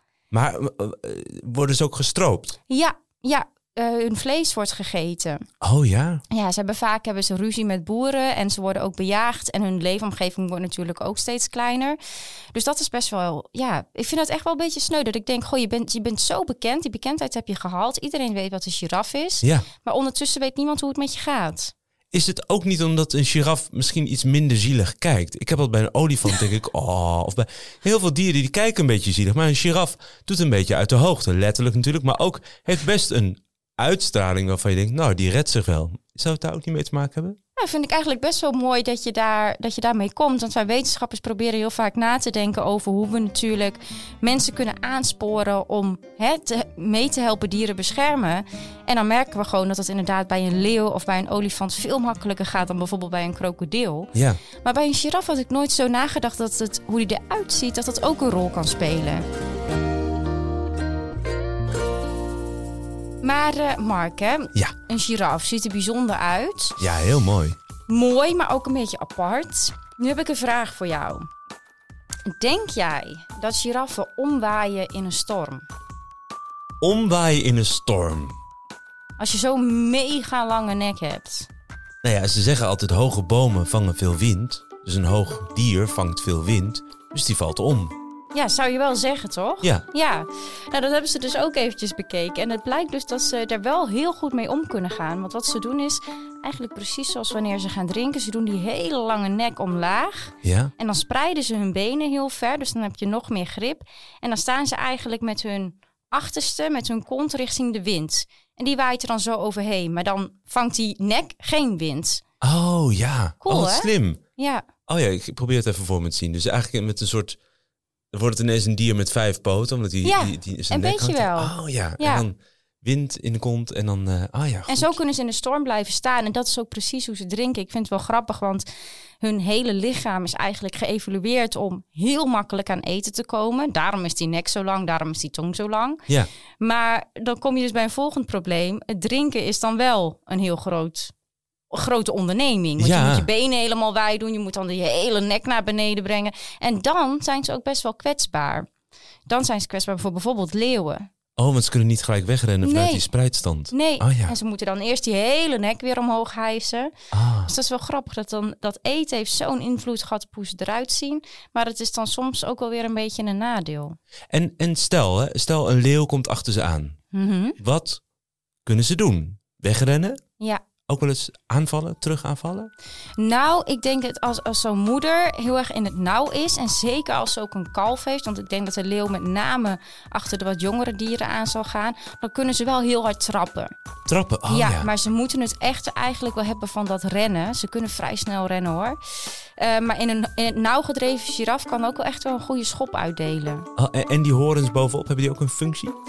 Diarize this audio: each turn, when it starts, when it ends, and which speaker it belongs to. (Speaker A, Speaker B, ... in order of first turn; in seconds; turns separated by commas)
Speaker A: 0.3-2.6, Speaker B: 2.7-5.4, Speaker A: 5.6-6.2, Speaker B: 6.3-12.0, Speaker B: 12.5-21.7, Speaker A: 19.4-19.7, Speaker A: 22.1-37.4, Speaker B: 37.5-59.2, Speaker A: 54.1-54.4, Speaker B: 63.2-66.8, Speaker A: 66.8-67.6, Speaker B: 67.9-71.3, Speaker B: 72.2-75.7, Speaker A: 76.8-78.3, Speaker B: 79.2-81.5, Speaker A: 82.0-88.0, Speaker B: 88.3-112.2, Speaker A: 100.4-100.7, Speaker A: 112.4-114.2, Speaker B: 113.4-114.7, Speaker A: 114.9-117.4, Speaker A: 118.1-124.9, Speaker B: 120.0-122.2, Speaker B: 124.7-128.7, Speaker B: 129.2-136.1, Speaker B: 136.6-141.1, Speaker B: 141.7-148.7, Speaker A: 142.8-143.3, Speaker B: 149.3-151.1, Speaker A: 151.4-154.3, Speaker B: 152.6-153.1, Speaker B: 153.7-156.9, Speaker A: 157.1-157.5, Speaker B: 157.5-164.0, Speaker A: 164.3-167.0, Speaker B: 167.1-167.6, Speaker A: 167.6-168.0, Speaker A: 168.6-170.2, Speaker A: 170.9-172.7, Speaker B: 173.2-183.7, Speaker A: 184.1-184.9, Speaker B: 184.5-189.0, Speaker B: 189.6-193.7, Speaker A: 193.8-195.9